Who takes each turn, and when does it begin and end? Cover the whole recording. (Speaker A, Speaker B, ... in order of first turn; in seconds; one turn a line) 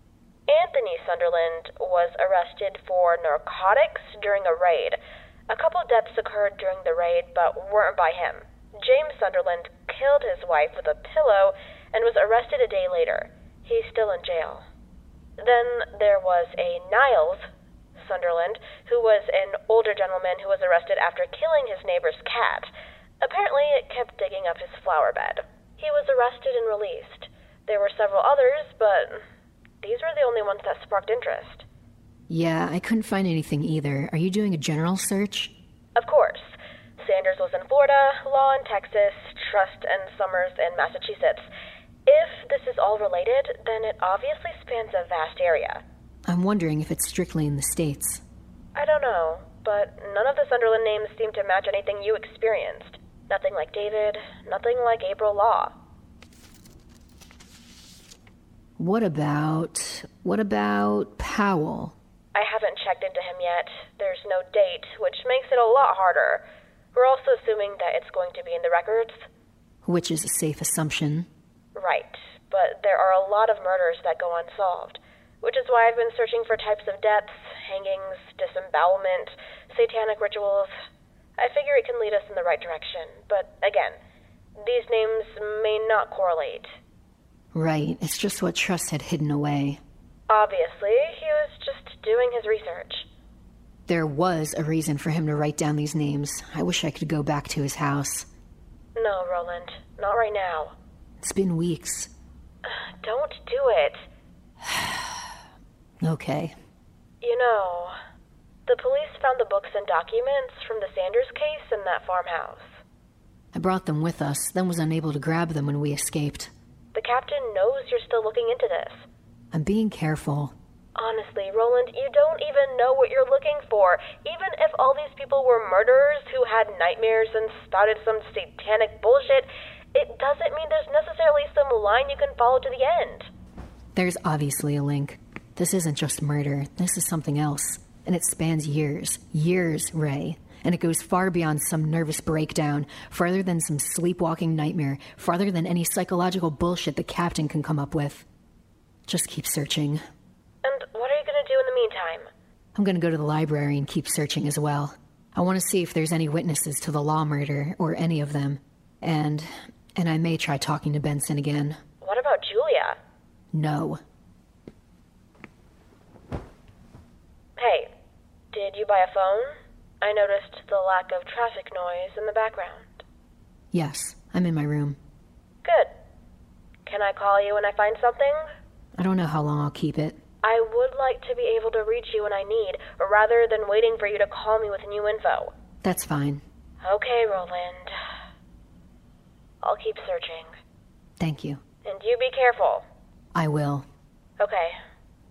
Speaker A: 0.5-14.7
Speaker A: 15.4-29.2
Speaker A: 29.8-31.6
Speaker B: 32.3-35.5
Speaker A: 36.0-41.5
Speaker A: 42.1-45.8
Speaker B: 46.3-48.2
Speaker A: 48.8-55.7
Speaker B: 58.8-62.0
Speaker A: 62.3-66.4
Speaker A: 66.9-69.3
Speaker B: 69.8-71.3
Speaker A: 71.8-80.7
Speaker A: 81.4-84.0
Speaker A: 84.6-86.7
Speaker B: 87.5-89.8
Speaker A: 90.3-93.1
Speaker B: 93.9-98.3
Speaker A: 99.0-100.8
Speaker B: 101.2-102.1
Speaker A: 102.7-104.0
Speaker B: 104.6-105.3
Speaker B: 106.0-106.5
Speaker A: 107.2-107.9
Speaker A: 108.7-112.8
Speaker B: 113.5-116.5
Speaker A: 116.9-119.1
Speaker B: 119.5-120.5
Speaker A: 121.0-133.3
Speaker B: 133.9-148.3
Speaker B: 149.1-150.0
Speaker A: 150.6-152.3
Speaker B: 152.8-161.8
Speaker A: 162.0-163.0
Speaker B: 163.5-164.0
Speaker A: 167.6-167.9
Speaker A: 168.5-173.0
Speaker B: 173.7-175.0
Speaker A: 175.6-175.9
Speaker A: 176.9-178.5
Speaker B: 179.0-180.2
Speaker A: 180.4-185.5
Speaker B: 185.8-186.4
Speaker A: 186.8-188.0
Speaker A: 189.6-190.5
Speaker B: 191.2-191.6
Speaker A: 191.8-192.8
Speaker B: 193.3-193.9
Speaker A: 194.4-194.8